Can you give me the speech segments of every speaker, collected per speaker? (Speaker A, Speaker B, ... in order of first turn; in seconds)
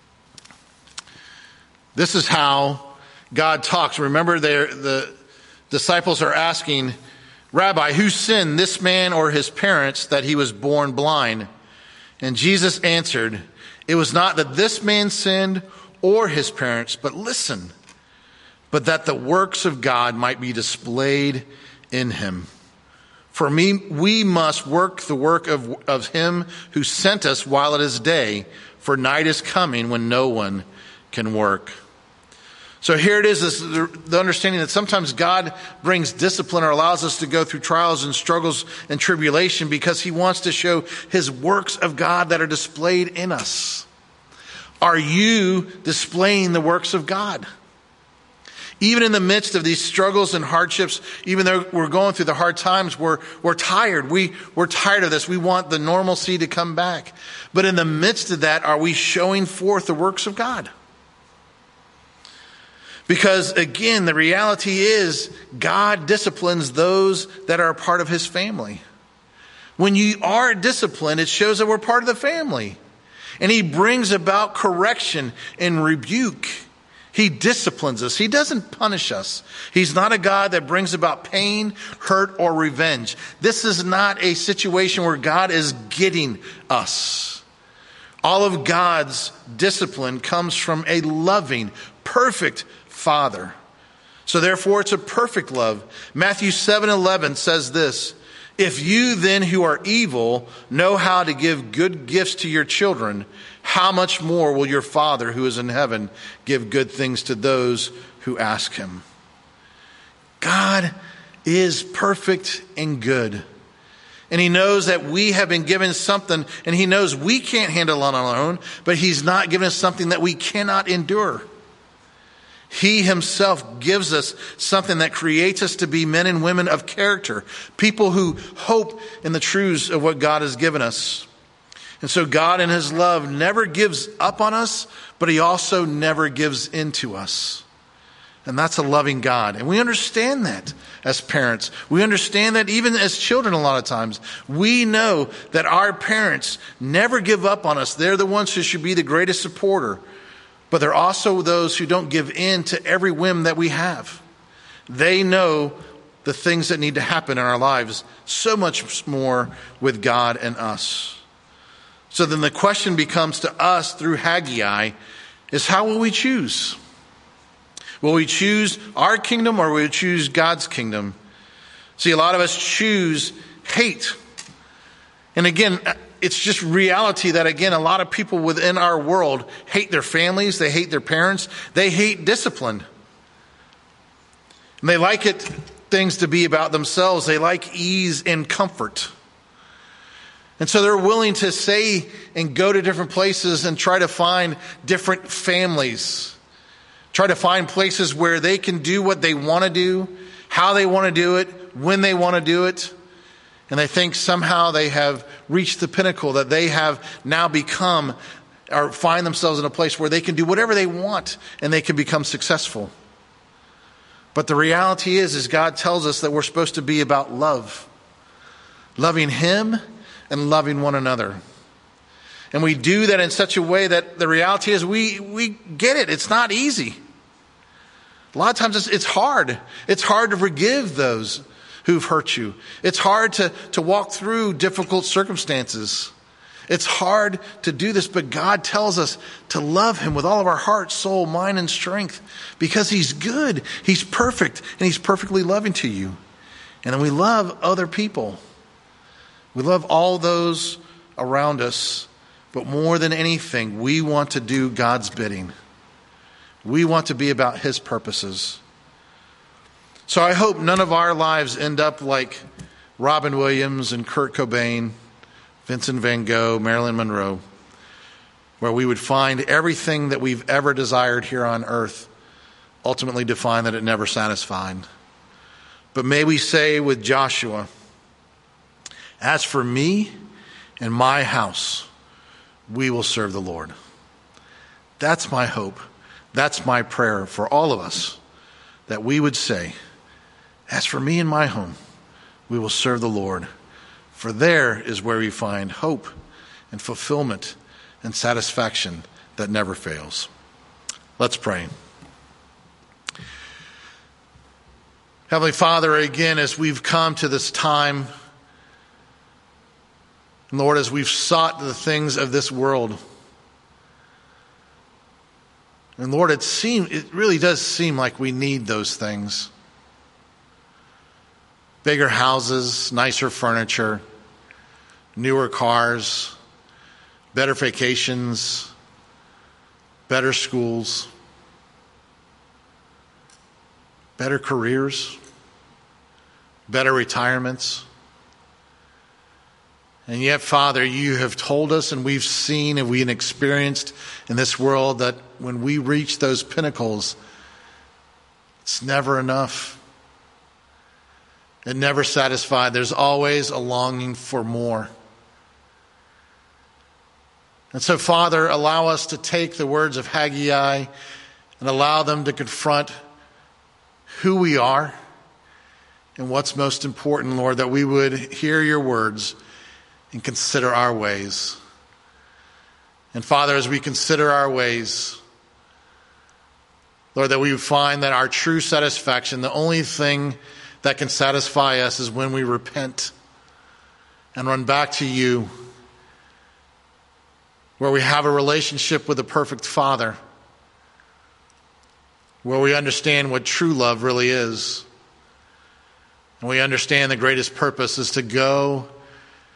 Speaker A: 1.9-5.1, 5.7-6.9, 7.5-11.5, 12.2-17.7, 18.7-22.5, 23.3-31.7, 32.8-43.9, 44.8-47.5, 48.8-60.7, 63.1-68.8, 69.8-72.8, 73.4-87.4, 88.2-93.5, 94.3-109.0, 110.4-110.9, 111.4-113.4, 114.3-121.5, 122.7-131.3, 132.0-137.6, 138.4-150.0, 150.7-154.2, 154.9-161.2, 162.1-164.9, 165.5-166.8, 168.0-171.2, 172.0-174.2, 175.3-182.8, 184.8-189.1, 190.6-196.4, 197.1-202.9, 203.7-208.2, 208.7-212.9, 214.3-217.9, 219.0-221.4, 222.5-227.0, 228.3-236.1, 236.7-246.2, 246.8-248.4, 249.5-255.5, 256.6-258.6, 260.1-262.4, 263.0-264.9, 265.6-267.4, 268.6-272.1, 272.8-274.9, 275.9-277.7, 279.2-280.1, 280.8-281.9, 282.7-283.7, 285.0-285.8, 286.3-288.2, 288.9-289.8, 290.7-291.8, 292.5-293.5, 294.1-296.1, 296.7-300.3, 301.2-301.7, 305.3-308.1, 310.5-313.0, 316.0-319.5, 321.8-324.0, 325.1-326.4, 327.3-328.7, 330.1-331.1, 334.2-335.2, 336.7-337.9, 340.1-347.2, 348.6-349.8, 351.6-354.9, 357.7-360.9, 361.6-362.9, 364.1-364.9, 366.1-369.4, 370.1-371.6, 373.1-375.2, 377.1-383.1, 384.3-385.5, 387.8-390.2, 392.4-394.9, 396.4-398.9